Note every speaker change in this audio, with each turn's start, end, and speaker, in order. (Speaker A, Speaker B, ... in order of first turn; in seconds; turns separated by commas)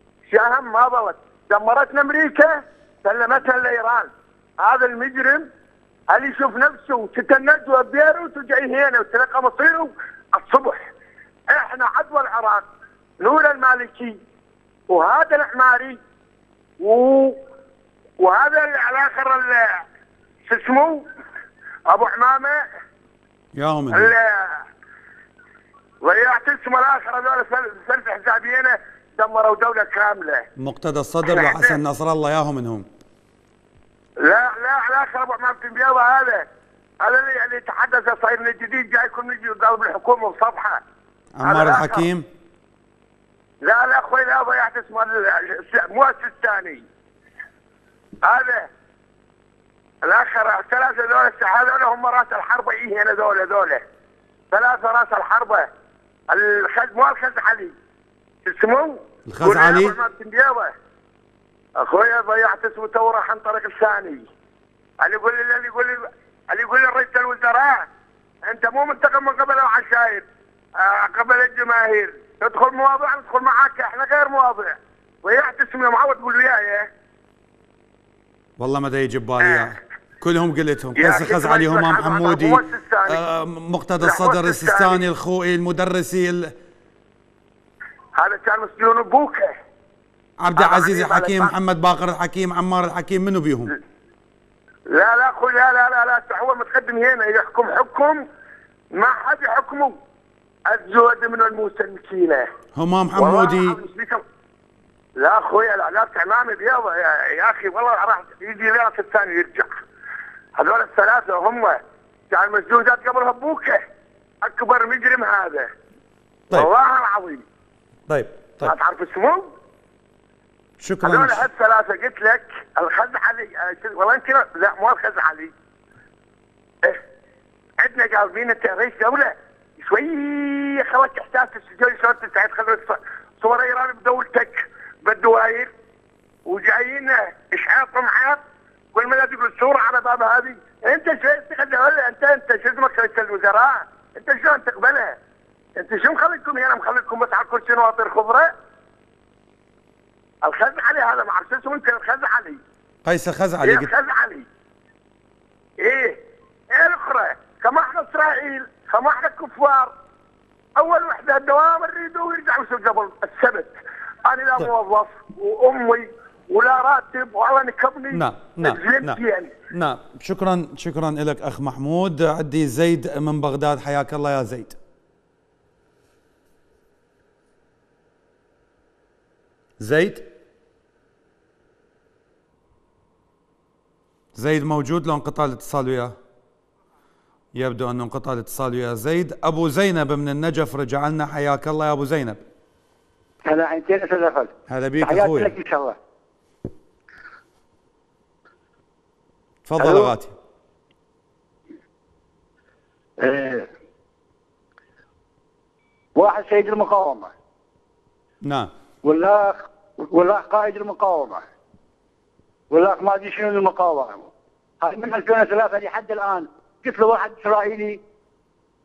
Speaker A: 0.3-5.5, Speaker A: 6.1-10.9, Speaker A: 11.5-12.7, Speaker A: 13.2-14.2, Speaker A: 14.9-16.0, Speaker A: 16.8-17.4, Speaker A: 18.2-19.8, Speaker A: 20.5-21.1, Speaker A: 21.9-22.6, Speaker B: 23.5-24.1, Speaker A: 23.9-24.6, Speaker A: 26.0-30.5, Speaker B: 30.6-32.9, Speaker A: 31.3-31.8, Speaker A: 34.2-36.5, Speaker A: 37.0-40.8, Speaker B: 41.4-42.3, Speaker A: 41.5-42.0, Speaker A: 43.6-46.9, Speaker A: 48.2-48.7, Speaker A: 50.0-53.8, Speaker A: 54.5-55.7, Speaker A: 56.3-57.7, Speaker A: 58.5-60.7, Speaker B: 59.3-60.0, Speaker A: 61.8-64.2, Speaker A: 65.0-67.9, Speaker A: 68.5-70.2, Speaker A: 70.8-76.9, Speaker B: 78.6-86.5, Speaker A: 81.0-83.2, Speaker A: 84.0-85.0, Speaker A: 88.2-89.5, Speaker B: 90.4-93.8, Speaker A: 90.6-91.5, Speaker A: 94.9-98.2, Speaker A: 98.9-100.0, Speaker A: 100.7-102.5, Speaker B: 102.8-103.8, Speaker A: 103.2-104.2, Speaker A: 105.2-109.7, Speaker A: 110.5-111.8, Speaker A: 112.3-113.8, Speaker A: 114.4-115.7, Speaker A: 116.5-117.4, Speaker B: 118.1-118.7, Speaker A: 118.6-119.5, Speaker B: 120.8-121.5, Speaker A: 121.0-125.5, Speaker A: 127.8-135.7, Speaker A: 136.5-138.4, Speaker A: 138.9-145.2, Speaker A: 145.8-148.5, Speaker A: 150.4-152.6, Speaker B: 153.1-153.9, Speaker A: 153.6-154.5, Speaker A: 155.8-156.2, Speaker A: 156.7-159.9, Speaker A: 160.8-163.7, Speaker A: 164.3-169.5, Speaker B: 168.1-169.2, Speaker B: 169.7-174.8, Speaker B: 179.8-180.3, Speaker B: 184.3-186.2, Speaker B: 187.5-192.4, Speaker C: 193.4-196.0, Speaker B: 194.7-195.5, Speaker B: 199.7-200.3, Speaker C: 199.8-200.1, Speaker C: 203.2-203.7, Speaker C: 206.2-207.3, Speaker B: 208.4-208.7, Speaker C: 209.0-211.4, Speaker C: 212.7-214.3, Speaker C: 214.8-218.0